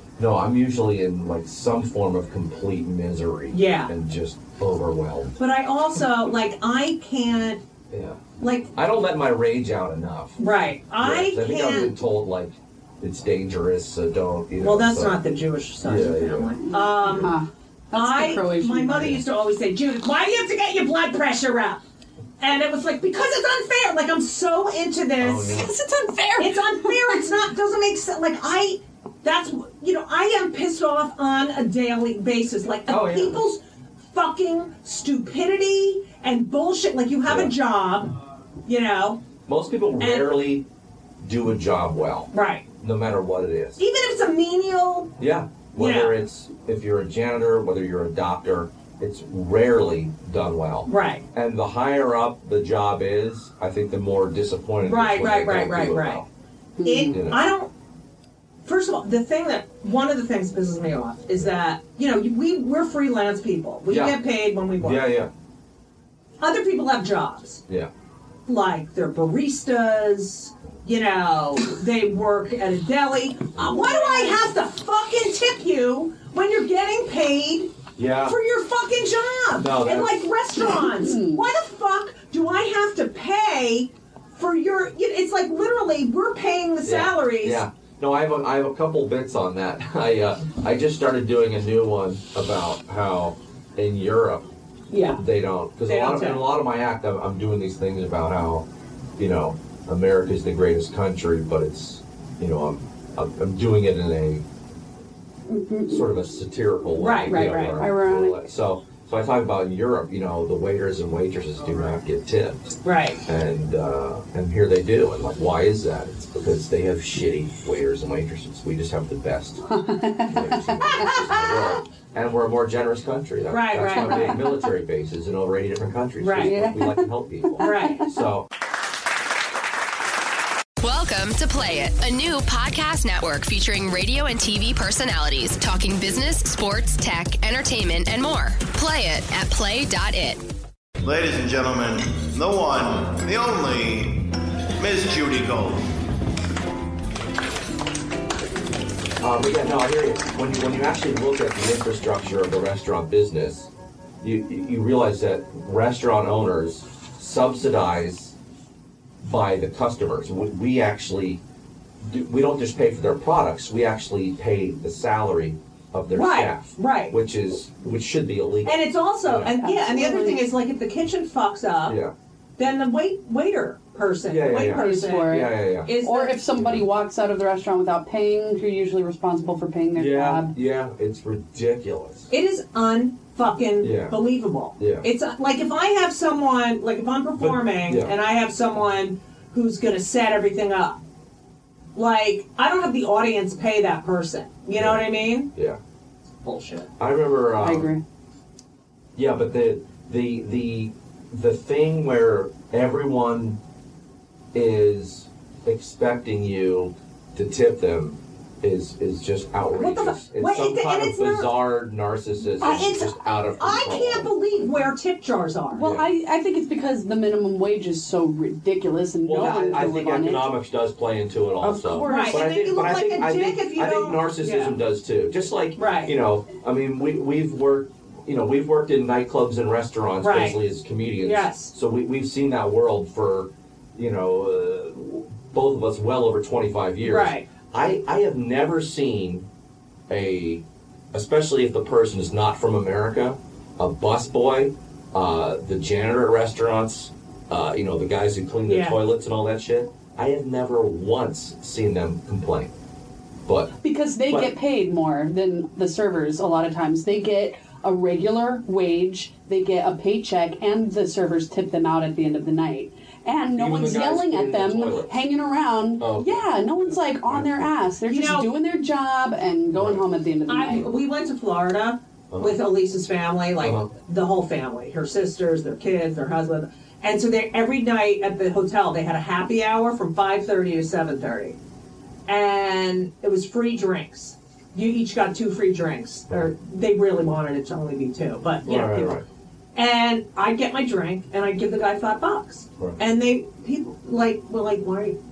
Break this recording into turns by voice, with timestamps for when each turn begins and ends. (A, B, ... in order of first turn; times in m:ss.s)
0:00.2-0:05.4 A
0:03.5-0:03.9 B
0:05.4-0:07.6 B
0:07.9-0:10.4 A
0:08.4-0:08.7 B
0:10.4-0:11.9 B
0:11.0-0:15.2 A
0:14.6-0:17.3 B
0:15.8-0:16.5 A
0:16.7-0:19.2 C
0:17.9-0:21.8 B
0:22.4-0:25.6 B
0:25.2-0:25.7 A
0:25.5-0:27.2 C
0:26.4-0:33.6 B
0:32.9-0:33.4 A
0:34.1-0:38.1 B
0:37.3-0:37.5 A
0:38.7-0:39.2 B
0:39.5-0:40.7 A
0:40.0-0:40.3 B
0:41.2-0:43.8 A
0:42.3-0:42.7 B
0:43.8-0:45.1 B
0:45.2-0:56.3 A
0:45.8-0:46.2 B
0:50.9-0:51.2 B
0:54.8-0:56.2 B
0:56.8-0:57.2 C
0:56.8-0:57.7 B
0:57.1-0:57.4 A
0:58.6-1:05.1 B
1:03.9-1:04.2 A
1:04.8-1:05.3 A
1:06.4-1:07.6 B
1:08.5-1:27.6 B
1:13.7-1:14.4 C
1:18.0-1:18.4 A
1:19.6-1:20.1 A
1:20.6-1:21.4 C
1:26.8-1:34.5 A
1:34.9-1:35.2 B
1:35.1-1:44.4 A
1:35.9-1:36.4 B
1:45.5-1:46.1 C
1:45.9-1:52.7 A
1:47.0-1:47.9 B
1:47.8-1:48.4 C
1:52.8-1:53.2 B
1:53.3-1:59.6 A
1:59.7-2:01.1 C
2:00.3-2:08.5 A
2:00.9-2:01.8 B
2:03.5-2:04.4 B
2:04.1-2:04.6 C
2:06.2-2:06.7 B
2:06.4-2:08.1 C
2:07.6-2:08.1 B
2:10.8-2:20.4 D
2:21.0-2:25.9 E
2:29.2-2:33.7 A
2:34.2-2:38.4 A
2:39.2-2:41.4 A
2:42.0-2:49.5 A
2:46.1-2:47.2 B
2:48.6-2:52.0 B
2:49.4-2:50.4 C
2:51.9-2:52.1 A
2:52.6-2:56.4 B
2:54.3-2:55.9 A
2:54.6-3:00.5 C
2:56.6-2:56.9 A
3:00.0-3:02.3 A
3:02.3-3:11.0 B
3:03.8-3:04.2 A
3:04.8-3:05.1 A
3:07.4-3:08.1 A
3:12.0-3:15.5 B
3:14.8-3:15.8 A
3:16.4-3:16.9 B
3:17.0-3:17.9 A
3:17.6-3:18.0 C
3:19.2-3:23.6 A
3:24.5-3:34.3 A
3:29.7-3:31.5 B
3:32.6-3:35.9 B
3:35.7-3:40.5 C
3:35.8-3:36.1 A
3:39.2-3:59.5 A
3:41.6-3:42.4 C
3:42.0-3:44.8 B
3:45.8-3:46.1 B
3:50.2-3:50.6 B
3:51.2-3:51.7 B
3:57.0-3:57.5 B
4:00.1-4:12.8 A
4:08.7-4:09.0 B
4:13.5-4:13.7 A
4:13.8-4:30.9 C
4:14.3-4:14.6 A
4:23.5-4:25.2 A
4:26.0-4:26.5 A
4:27.3-4:27.7 A
4:28.1-4:28.5 B
4:29.7-4:30.0 A
4:30.5-4:41.6 B
4:32.3-4:32.6 A
4:33.6-4:33.9 A
4:42.3-4:49.2 B
4:48.6-4:49.2 A
4:49.8-4:55.2 B